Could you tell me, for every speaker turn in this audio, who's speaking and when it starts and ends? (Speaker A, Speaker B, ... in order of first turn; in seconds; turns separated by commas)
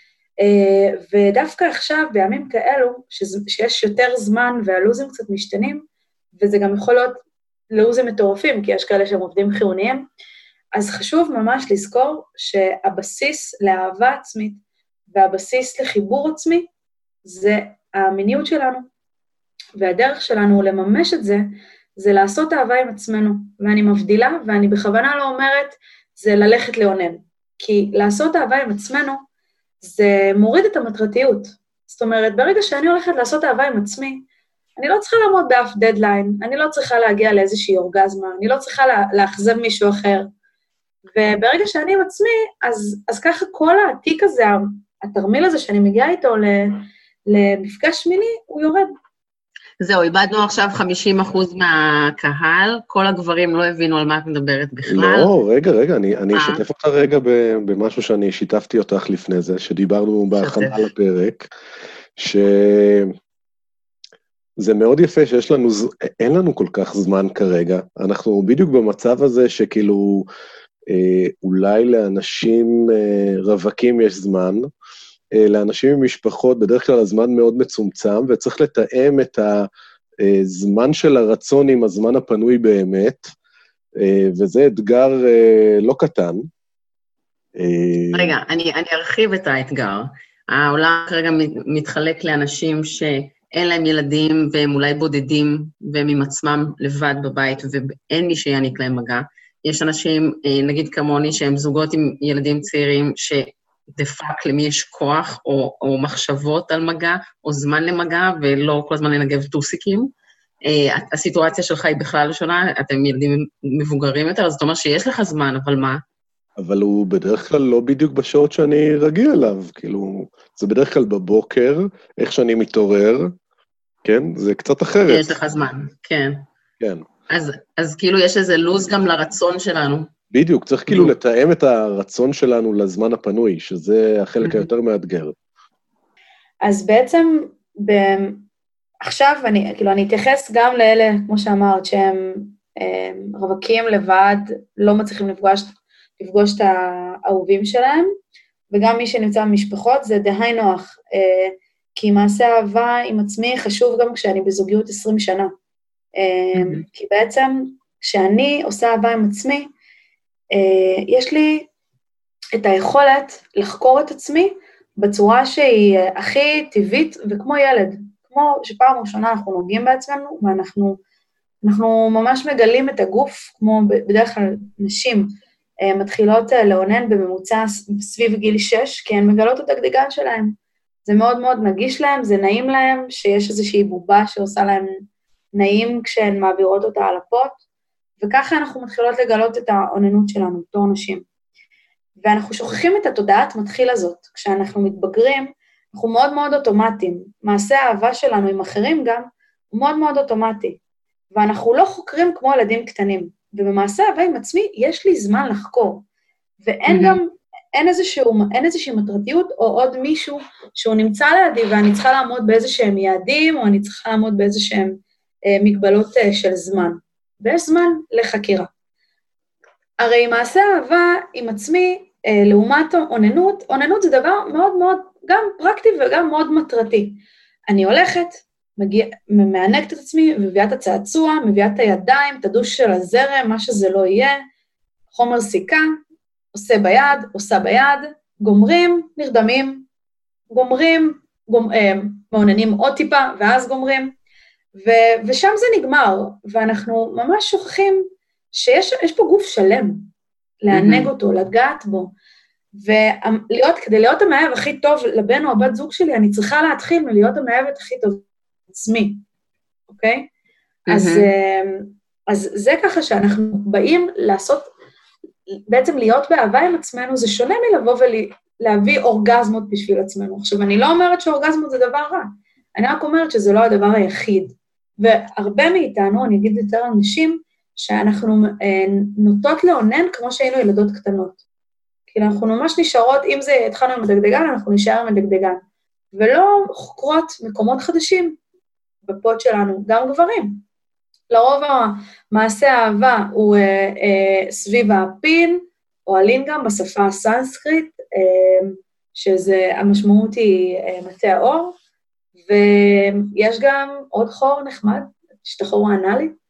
Speaker A: 0.4-10.0, Speaker A: 10.7-16.7, Speaker A: 17.2-18.9, Speaker A: 19.8-29.2, Speaker A: 29.8-34.2, Speaker A: 34.8-40.3, Speaker A: 41.1-48.9, Speaker B: 49.8-55.3, Speaker C: 54.9-61.5, Speaker B: 56.3-56.6, Speaker B: 60.4-60.9, Speaker C: 62.2-63.1, Speaker C: 64.6-70.2, Speaker C: 70.9-74.7, Speaker C: 75.3-79.7, Speaker C: 80.2-83.3, Speaker C: 84.0-86.5, Speaker C: 87.5-88.3, Speaker B: 88.1-110.1, Speaker B: 110.6-116.0, Speaker C: 116.6-123.3, Speaker C: 124.0-125.4, Speaker B: 125.1-126.4, Speaker C: 126.8-127.0, Speaker B: 127.3-130.1, Speaker C: 130.3-135.3, Speaker B: 130.9-131.1, Speaker B: 134.4-134.7, Speaker A: 136.6-138.5, Speaker A: 139.0-148.1, Speaker A: 148.7-155.5, Speaker A: 156.2-159.7, Speaker B: 156.5-156.8, Speaker A: 160.5-161.7, Speaker A: 162.6-171.0, Speaker A: 171.6-175.3, Speaker A: 175.8-184.9, Speaker A: 185.5-187.6, Speaker A: 188.2-191.2, Speaker A: 192.2-200.8, Speaker A: 201.3-206.0, Speaker A: 206.6-215.0, Speaker B: 206.9-207.2, Speaker A: 215.5-218.7, Speaker A: 220.0-234.4, Speaker A: 235.1-235.8, Speaker A: 236.5-239.9, Speaker A: 240.5-244.1, Speaker A: 244.8-250.1, Speaker A: 250.6-252.1, Speaker B: 250.7-251.1, Speaker A: 252.7-259.2, Speaker A: 259.9-260.3, Speaker B: 260.9-261.3, Speaker A: 260.9-264.7, Speaker A: 265.7-281.4, Speaker A: 282.1-285.6, Speaker A: 286.1-288.4, Speaker A: 289.0-290.6, Speaker A: 291.3-301.7, Speaker A: 302.4-306.3